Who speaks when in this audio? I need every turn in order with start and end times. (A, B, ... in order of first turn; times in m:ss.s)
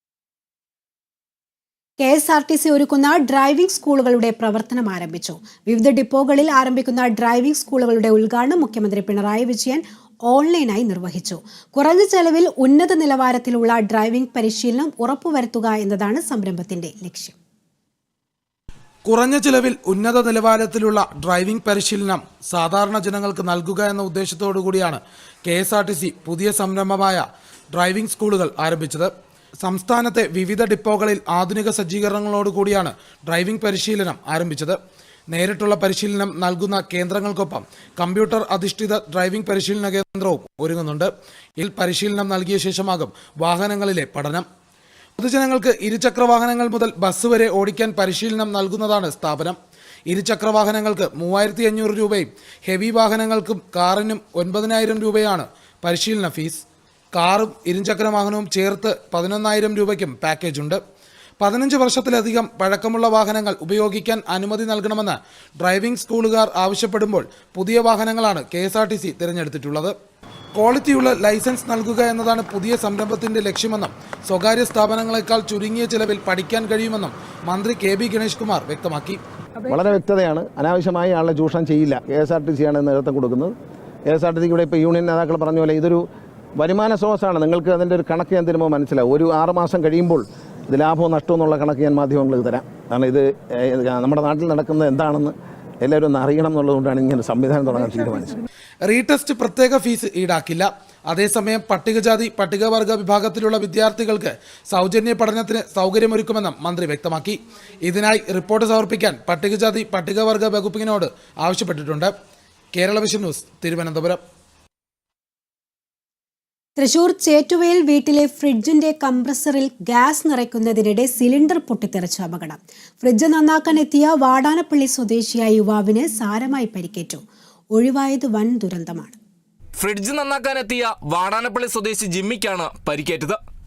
0:02.0-0:17.4 A
0:19.0-0:29.1 B
0:29.6-0:34.8 B
0:35.3-0:44.4 B
0:45.2-0:49.6 B
0:50.1-1:00.8 B
1:01.4-1:09.9 B
1:10.5-1:19.2 B
1:19.7-1:23.5 C
1:24.1-1:26.0 C
1:26.6-1:38.4 C
1:38.9-1:52.1 B
1:52.7-1:54.2 B
1:56.8-2:07.2 A
2:07.7-2:09.2 A
2:09.8-2:13.4 D